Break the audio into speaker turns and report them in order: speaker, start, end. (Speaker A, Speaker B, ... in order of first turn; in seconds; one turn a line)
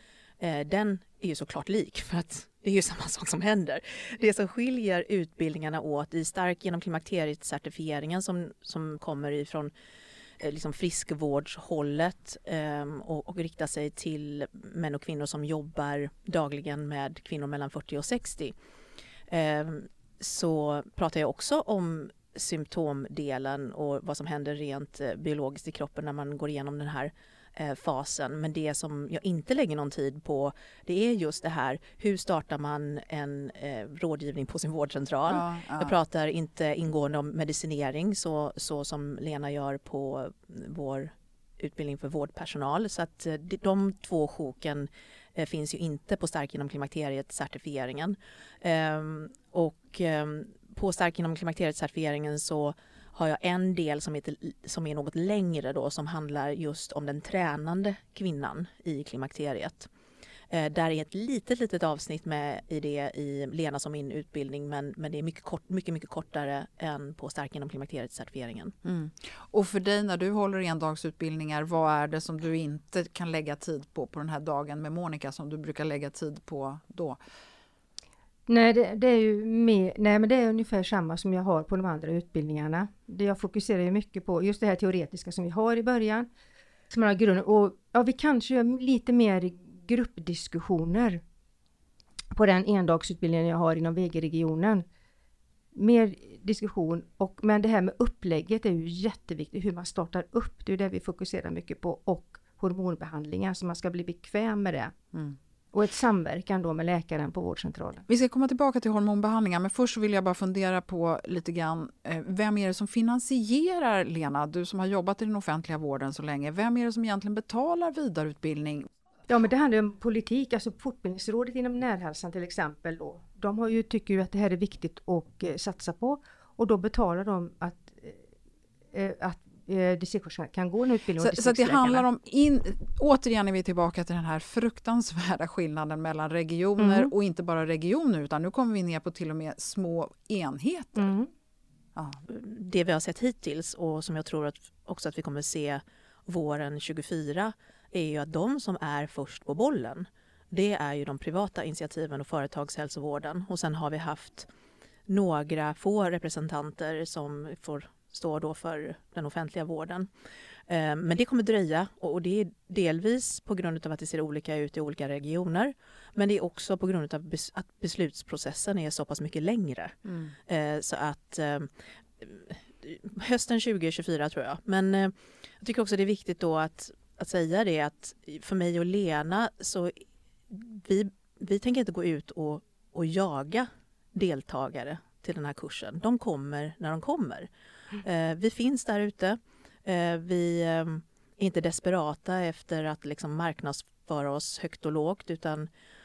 Speaker A: 0.4-9.7
Speaker A: 10.4-18.5
Speaker A: 19.3-59.9
Speaker B: 35.3-35.9
Speaker A: 60.5-68.7
Speaker B: 68.8-77.2
Speaker C: 78.5-86.3
Speaker C: 86.9-91.2
Speaker C: 92.3-94.8
Speaker C: 95.7-104.9
Speaker C: 105.7-108.0
Speaker B: 108.1-118.9
Speaker C: 119.3-128.2
Speaker C: 128.9-132.0
Speaker B: 131.2-141.1
Speaker C: 136.8-137.1
Speaker C: 141.0-141.3
Speaker B: 141.9-142.2
Speaker A: 142.3-154.5
Speaker A: 155.1-160.1
Speaker A: 160.7-195.7
Speaker B: 170.1-170.3